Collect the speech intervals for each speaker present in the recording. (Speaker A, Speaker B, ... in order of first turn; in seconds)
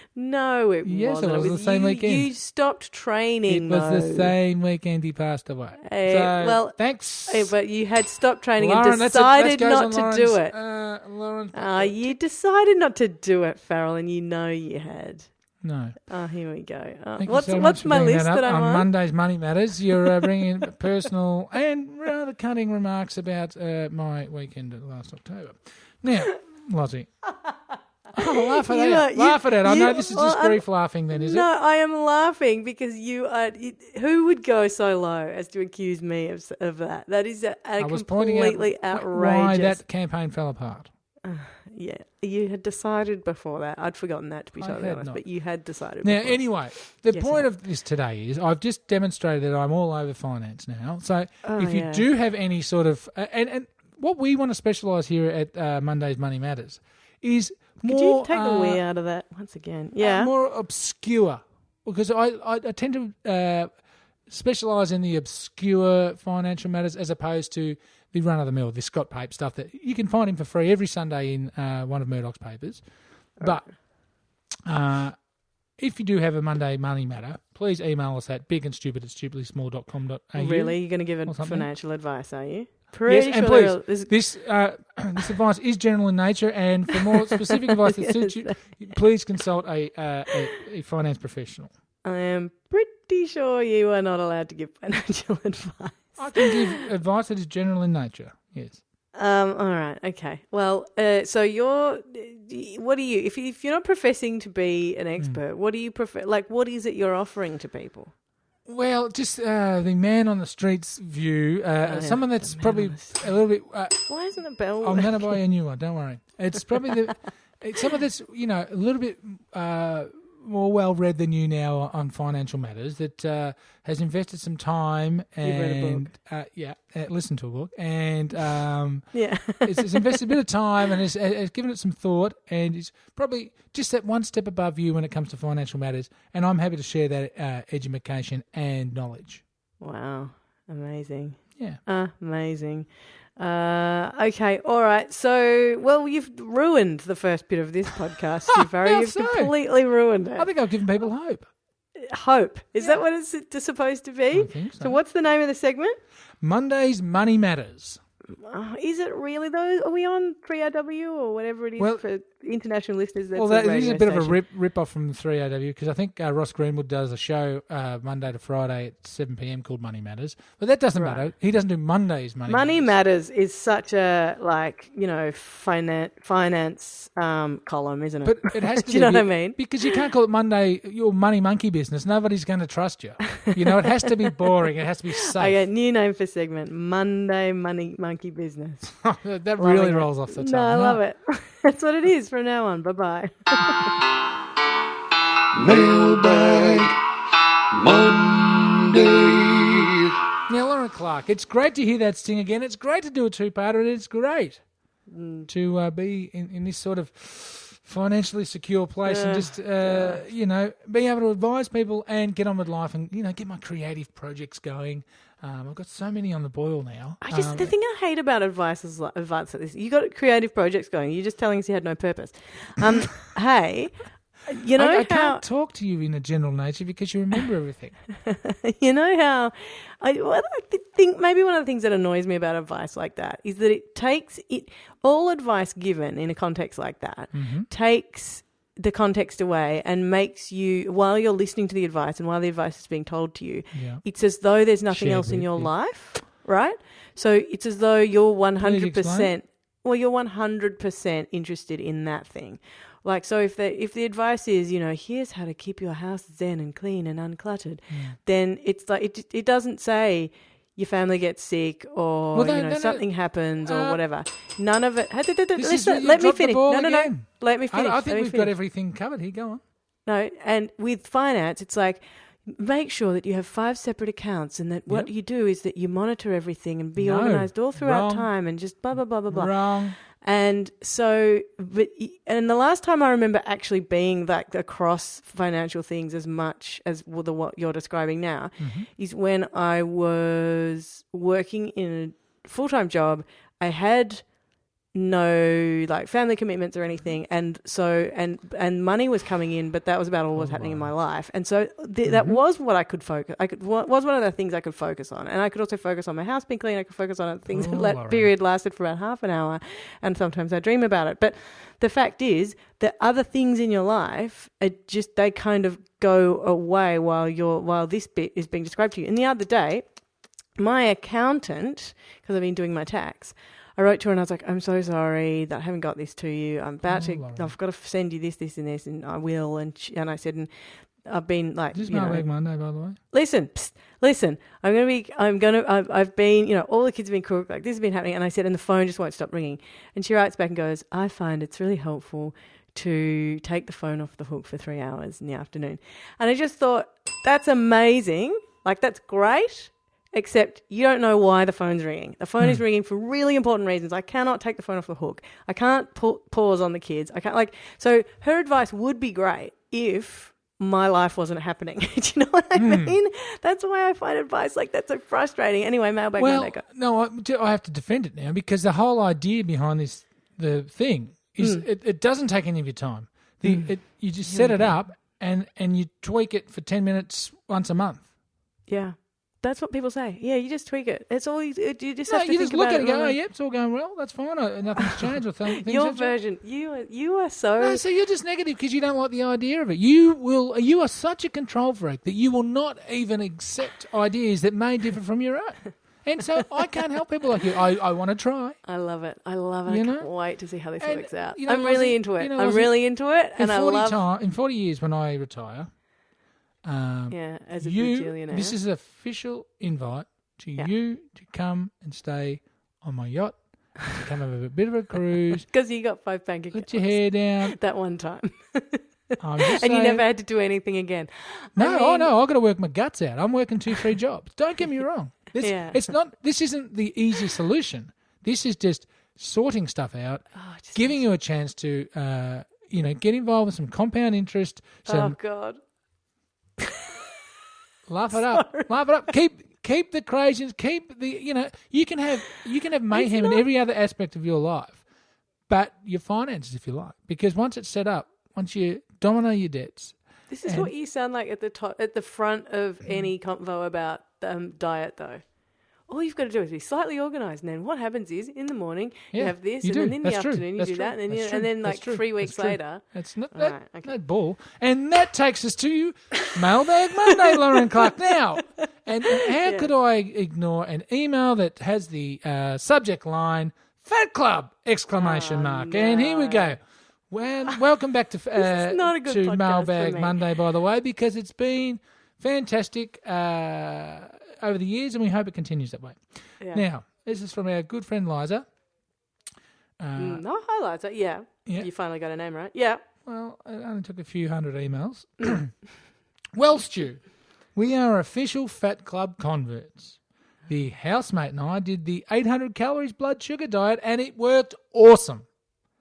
Speaker A: 0.1-4.3, 5.8-10.5, 11.5-15.3, 16.1-18.9, 28.2-39.8, 41.2-47.5, 51.4-52.0, 57.9-60.3, 73.4-73.7, 80.3-84.2, 86.9-89.0, 92.0-96.7, 99.1-108.1, 111.9-113.2, 114.1-115.4, 125.4-126.1, 129.1-130.2, 139.8-150.5, 151.9-156.0, 158.3-164.4, 171.0-171.3, 172.5-180.0, 183.5-184.1, 185.2-189.0, 189.6-194.0, 205.1-205.5, 209.1-210.2, 217.2-225.4, 228.1-268.5, 270.1-294.3, 294.9-319.9, 320.6-332.2, 333.1-366.6, 371.4-371.6, 373.4-373.8, 374.3-374.8, 378.7-383.2, 384.8-387.8, 398.6-404.0, 407.1-408.6, 415.5-422.1, 425.4-425.8, 430.4-431.0, 434.9-435.6, 436.6-437.1, 438.1-438.7, 442.9-443.4, 450.3-455.2, 455.9-463.9, 467.1-467.9, 469.1-469.7, 474.9-476.6, 478.4-480.2, 490.0-492.8
Speaker B: 0.8-2.3, 3.5-7.5, 8.6-12.1, 15.6-16.0, 17.2-27.3, 28.1-31.5, 37.8-40.9, 44.6-45.2, 46.0-58.8, 60.0-72.9, 73.4-74.1, 74.7-75.2, 75.8-81.7, 83.1-91.7, 96.2-98.8, 108.7-114.1, 114.8-139.4, 148.5-149.5, 150.4-151.5, 154.3-155.0, 156.4-158.0, 161.8-162.0, 163.3-172.9, 178.2-185.6, 188.9-191.0, 200.5-204.6, 205.5-217.7, 224.8-228.0, 237.3-237.7, 243.7-244.0, 244.9-245.7, 248.6-249.3, 257.9-258.2, 262.3-263.1, 263.6-264.0, 265.6-269.6, 277.0-278.3, 279.3-280.0, 288.6-288.9, 300.3-300.9, 302.1-302.4, 307.5-308.3, 326.9-327.5, 331.7-333.0, 362.6-362.9, 366.2-378.1, 382.1-386.1, 387.6-398.6, 399.7-400.1, 400.8-402.8, 403.3-405.7, 406.6-415.5, 416.5-417.6, 419.2-420.0, 421.6-435.2, 437.9-444.9, 445.5-450.7, 459.1-488.5, 489.8-490.2, 493.1-495.6, 496.4-505.3
Speaker C: 195.6-197.0, 197.8-200.2